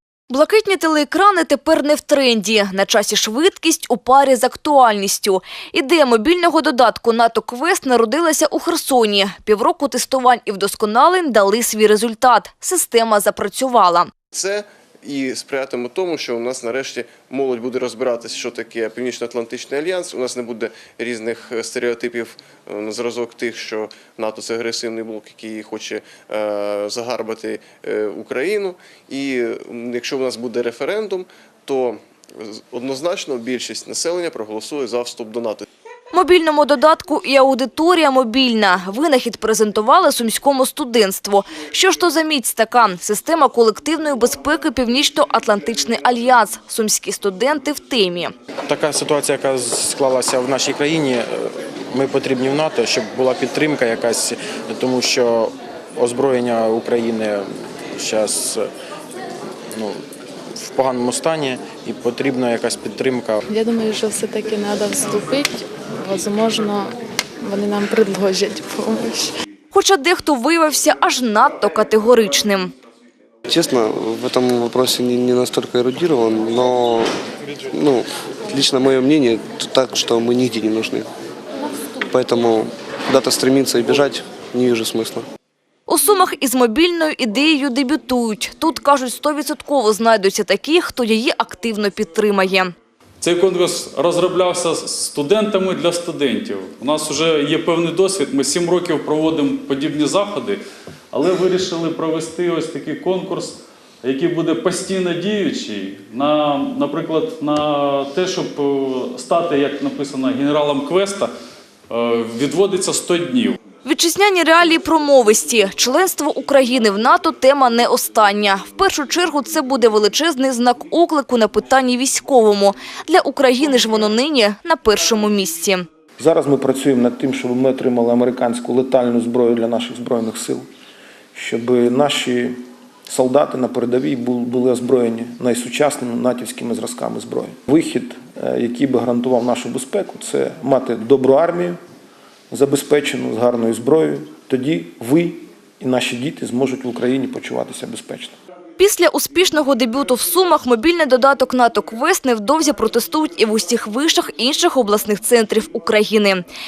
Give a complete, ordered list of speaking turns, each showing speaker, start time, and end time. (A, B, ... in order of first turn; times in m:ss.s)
0:00.3-0:14.1 A
0:14.3-0:35.6 B
0:36.1-0:48.3 A
0:48.7-0:57.4 C
0:58.0-0:58.7 C
0:59.7-1:00.0 C
1:00.6-1:03.4 C
1:03.5-1:09.3 D
1:09.7-1:12.7 A
1:13.5-1:17.1 E
1:17.7-1:21.1 E
1:22.1-1:25.2 E
1:25.9-1:32.7 A
1:33.2-1:40.6 F
1:41.1-1:51.3 F
1:51.9-1:53.6 F
1:53.8-2:05.8 A
2:06.2-2:10.6 G
2:11.3-2:12.6 G
2:13.1-2:21.8 G
2:22.5-2:28.3 G
2:28.8-2:36.4 A